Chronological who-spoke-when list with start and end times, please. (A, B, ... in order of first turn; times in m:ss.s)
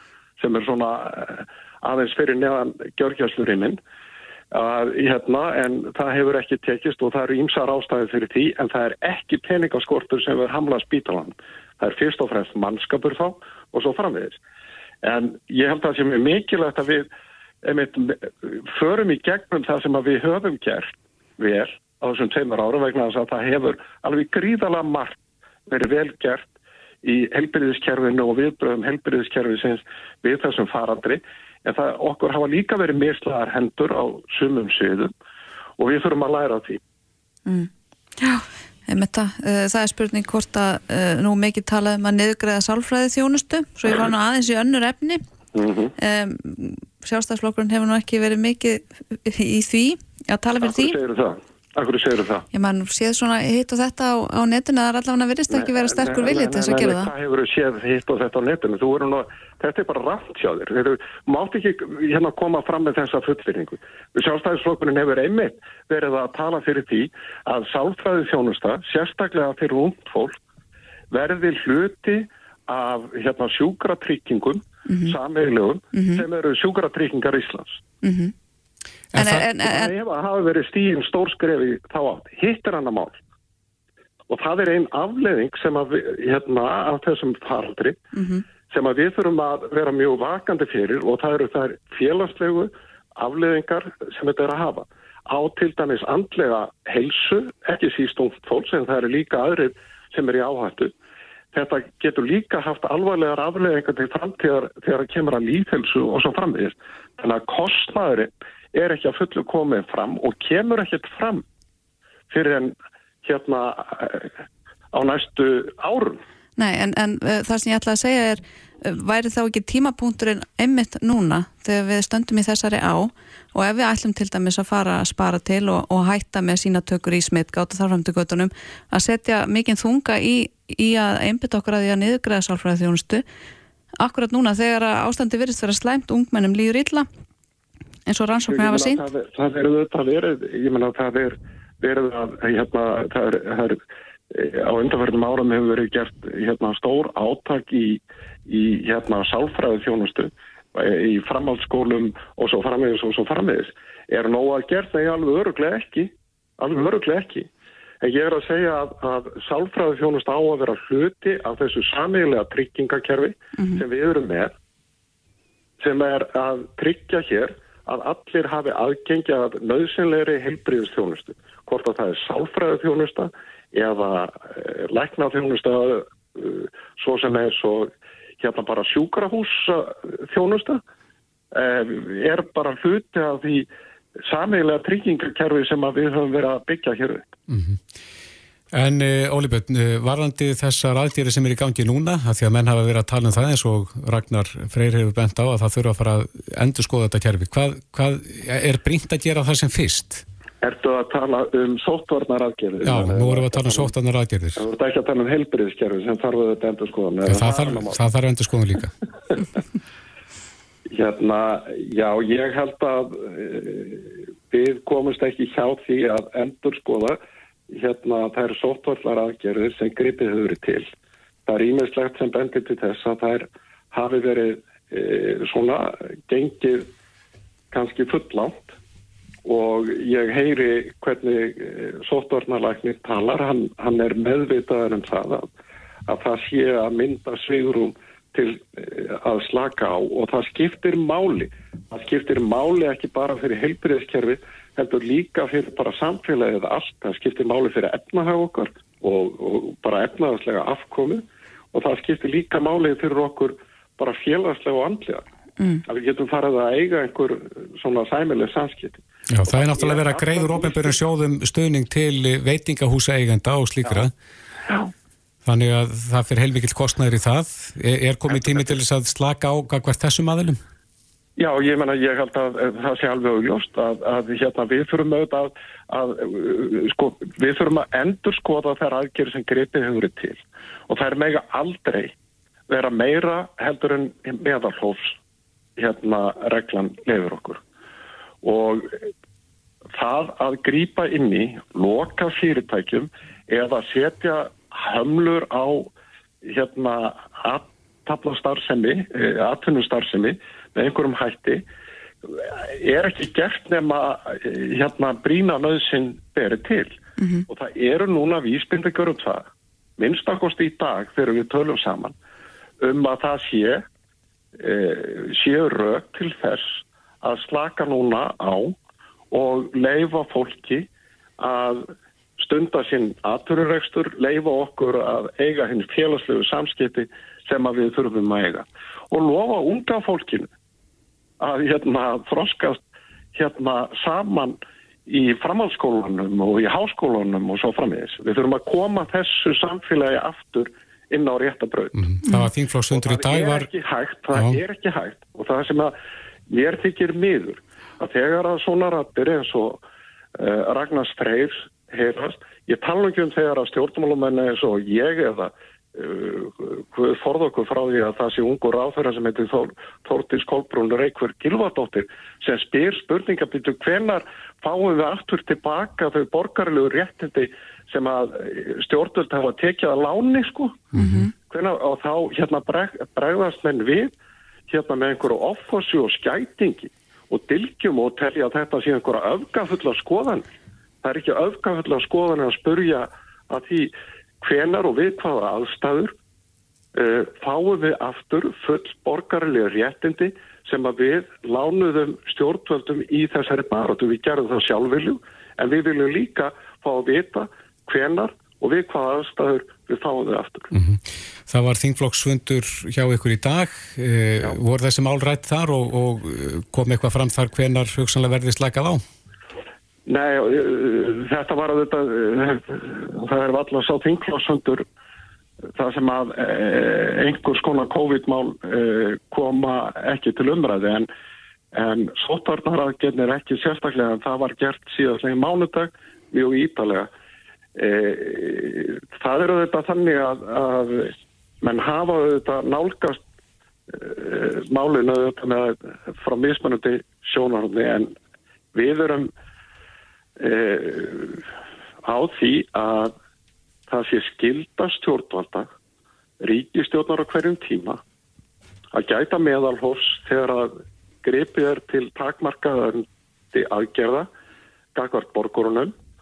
0:00.4-0:03.8 A
0:04.5-0:14.4 A
0:15.0-0:17.1 A
0:17.6-0:26.5 A
0:27.0-0:35.1 A
0:35.8-0:36.8 A
0:37.4-0:45.2 B
0:45.5-0:45.9 A
0:46.0-0:51.0 B
0:50.6-0:52.4 A
0:52.5-0:57.1 B
0:55.5-1:10.4 A
1:11.1-1:17.8 A
1:14.9-1:15.1 B
1:15.9-1:16.2 B
1:18.0-1:18.3 B
1:19.1-1:19.4 C
1:19.1-1:19.9 B
1:19.4-1:23.2 A
1:24.3-1:28.0 A
1:28.1-1:28.4 B
1:28.7-1:40.9 A
1:41.5-1:51.4 A
1:52.3-1:54.3 A
1:54.9-1:56.2 A
1:56.6-2:13.2 B
2:14.0-2:17.1 B
2:18.1-2:19.0 B
2:18.5-2:23.8 A
2:24.3-2:37.5 A
2:38.0-2:44.5 A
2:45.8-3:00.8 A
3:01.5-3:03.7 A
3:04.2-3:07.2 A
3:07.5-3:07.8 C
3:08.7-3:20.2 C
3:20.6-3:23.9 A
3:22.8-3:24.6 C
3:24.6-3:28.0 A
3:27.2-3:28.9 C
3:30.9-3:37.2 A
3:37.7-3:40.9 A
3:41.5-3:46.9 A
3:47.7-3:48.7 A
3:49.4-3:55.5 A
3:56.1-4:15.2 A
4:15.9-4:21.0 A
4:19.3-4:24.1 C
4:24.7-4:24.9 A
4:25.4-4:30.6 C
4:28.3-4:28.7 A
4:31.4-4:42.1 A
4:42.7-4:45.2 A
4:45.8-4:47.6 A
4:48.4-4:49.1 A
4:49.9-4:55.9 A
4:56.4-5:01.6 A
5:02.3-5:07.0 A
5:07.2-5:07.4 B
5:07.5-5:09.4 A
5:10.0-5:12.1 A
5:12.8-5:13.8 A
5:14.6-5:18.8 A
5:19.3-5:20.9 A
5:21.4-5:21.9 A
5:22.4-5:30.5 A
5:31.4-5:32.8 A
5:33.3-5:42.1 A
5:42.0-5:43.7 C
5:42.9-5:46.0 A
5:44.3-5:44.6 C
5:46.5-5:49.8 A
5:50.4-6:10.8 A
6:10.9-6:11.3 C
6:11.5-6:14.1 A
6:14.7-6:20.5 A
6:21.0-6:26.1 A
6:26.9-6:40.7 A
6:40.7-6:49.0 C
6:50.1-6:54.8 A
6:55.8-7:01.1 A
7:01.7-7:07.1 A
7:07.8-7:13.2 A
7:13.9-7:18.1 A
7:18.7-7:19.3 A
7:20.4-7:21.4 A
7:22.0-7:23.1 A
7:23.9-7:25.7 A
7:26.4-7:28.0 A
7:28.9-7:34.3 A
7:34.9-7:35.9 A